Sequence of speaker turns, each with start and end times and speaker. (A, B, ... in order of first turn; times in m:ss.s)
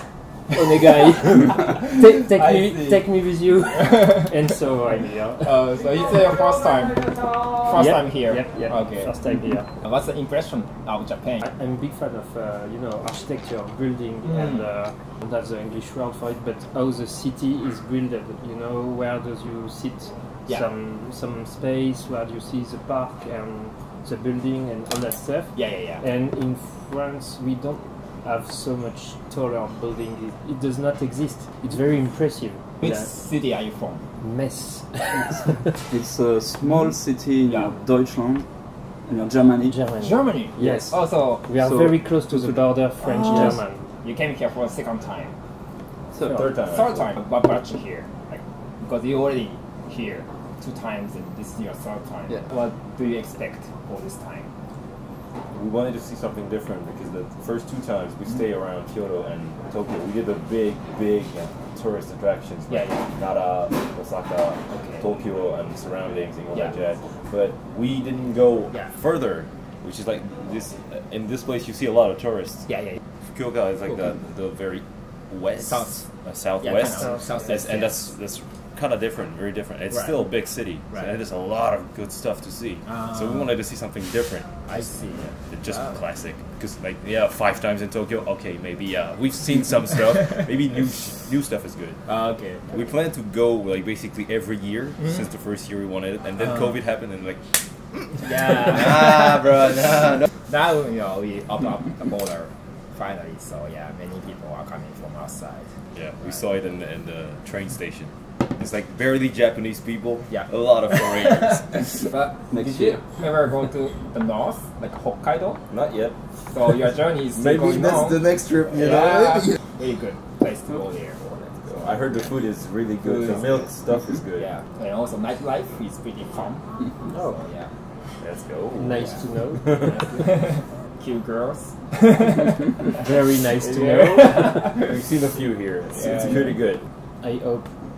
0:00.5-0:05.6 A
0:02.3-0:03.0 B
0:05.4-0:07.0 C
0:07.6-0:09.1 C
0:07.7-0:09.6 A
0:09.8-0:11.4 C
0:11.4-0:33.1 A
0:14.3-0:14.6 C
0:25.5-0:26.0 C
0:32.8-0:34.0 C
0:34.2-0:35.8 A
0:35.9-0:38.4 D
0:37.5-0:37.7 C
0:39.1-0:39.8 D
0:39.7-0:43.8 A
0:40.0-0:41.4 C
0:41.6-0:42.6 D
0:43.0-0:45.3 C
0:46.1-0:46.4 D
0:46.2-0:46.5 A
0:46.3-0:47.1 B
0:46.6-0:54.5 C
0:55.5-1:12.6 B
1:02.7-1:03.0 C
1:04.7-1:05.0 C
1:12.7-1:13.0 C
1:13.3-1:24.8 B
1:15.6-1:16.1 C
1:16.6-1:18.1 C
1:16.9-1:17.3 A
1:22.9-1:23.5 C
1:24.7-1:26.0 C
1:25.5-1:32.0 B
1:32.1-1:32.7 C
1:32.7-1:37.4 B
1:38.0-1:40.2 B
1:38.2-1:39.4 C
1:40.5-1:45.7 C
1:45.9-1:51.6 B
1:50.3-1:55.6 C
1:52.5-1:53.0 D
1:55.7-1:56.2 B
1:56.5-2:02.3 C
1:57.3-1:59.5 B
2:01.7-2:04.5 B
2:03.0-2:03.7 C
2:04.4-2:07.7 C
2:08.2-2:10.0 B
2:08.8-2:10.2 A
2:09.8-2:12.9 C
2:12.9-2:14.7 A
2:14.0-2:14.7 C
2:14.7-2:16.8 B
2:16.0-2:16.6 C
2:17.2-2:17.7 A